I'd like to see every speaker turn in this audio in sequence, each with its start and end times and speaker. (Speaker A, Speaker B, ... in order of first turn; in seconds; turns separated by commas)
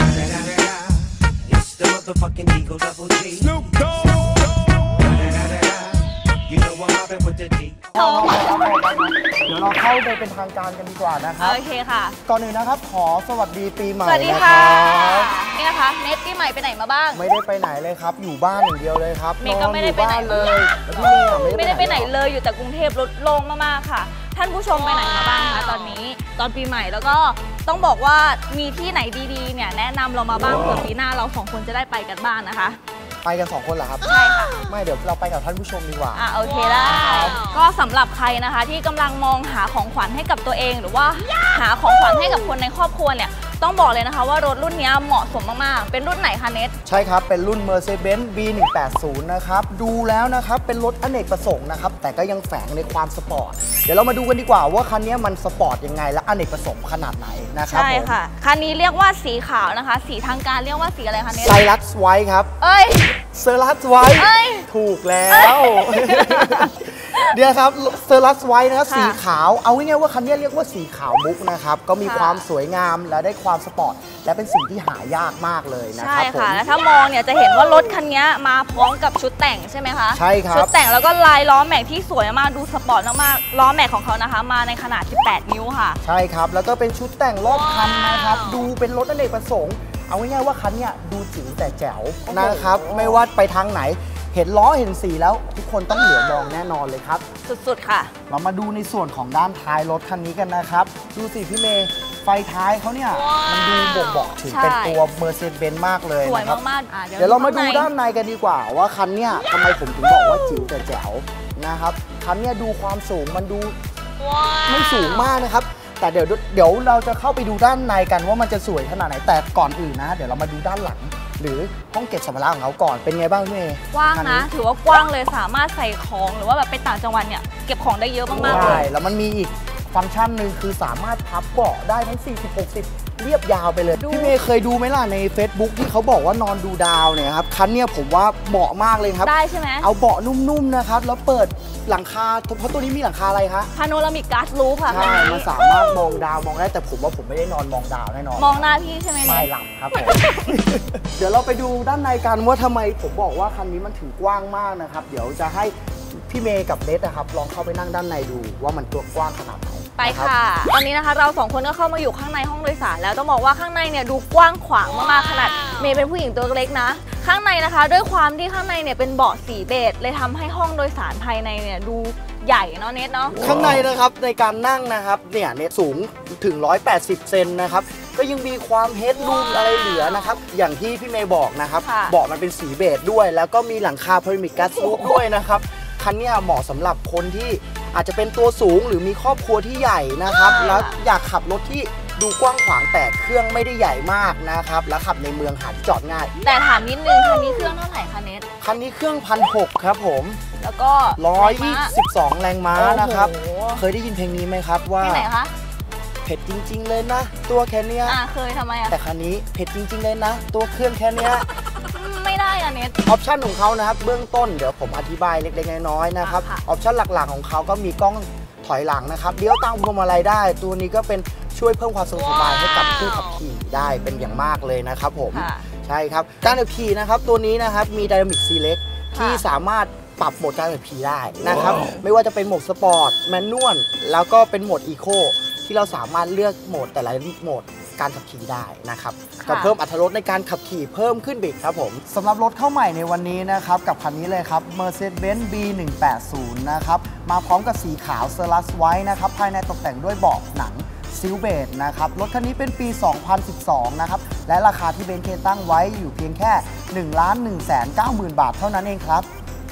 Speaker A: 0.5-0.9, Speaker A: 1.6-3.6, Speaker A: 6.6-7.7, Speaker B: 7.9-11.6, Speaker C: 7.9-8.5, Speaker C: 11.4-12.2, Speaker B: 12.2-15.3, Speaker C: 14.0-17.2, Speaker B: 17.1-22.1, Speaker C: 19.4-32.8, Speaker B: 33.2-36.3, Speaker C: 34.0-34.6, Speaker C: 36.1-46.7, Speaker B: 36.8-37.4, Speaker B: 46.8-58.1, Speaker C: 57.7-61.7, Speaker B: 61.3-62.5, Speaker C: 62.6-63.2, Speaker B: 63.3-76.6, Speaker C: 64.1-64.7, Speaker C: 65.3-67.2, Speaker C: 68.8-69.2, Speaker C: 72.0-72.4, Speaker C: 75.9-86.0, Speaker B: 80.1-80.7, Speaker B: 86.0-97.2, Speaker C: 92.3-93.2, Speaker C: 97.5-98.1, Speaker B: 98.3-106.6, Speaker C: 104.4-105.0, Speaker C: 106.2-107.9, Speaker B: 107.2-113.8, Speaker B: 114.7-124.5, Speaker C: 123.9-128.8, Speaker B: 128.3-143.7, Speaker C: 134.0-134.3, Speaker C: 139.2-139.9, Speaker C: 143.7-145.5, Speaker B: 144.9-160.3, Speaker C: 148.4-150.6, Speaker C: 160.0-173.4, Speaker B: 173.4-196.3, Speaker C: 181.8-182.1, Speaker C: 190.5-191.0, Speaker C: 196.4-198.4, Speaker B: 198.6-200.4, Speaker C: 200.6-201.9, Speaker B: 201.2-205.3, Speaker C: 202.8-203.8, Speaker C: 205.0-205.5, Speaker B: 206.2-208.2, Speaker C: 208.1-208.9, Speaker B: 208.9-211.5, Speaker C: 211.7-213.0, Speaker B: 213.0-259.3, Speaker C: 216.2-216.6, Speaker C: 225.3-225.7, Speaker C: 229.1-229.4, Speaker C: 239.4-239.7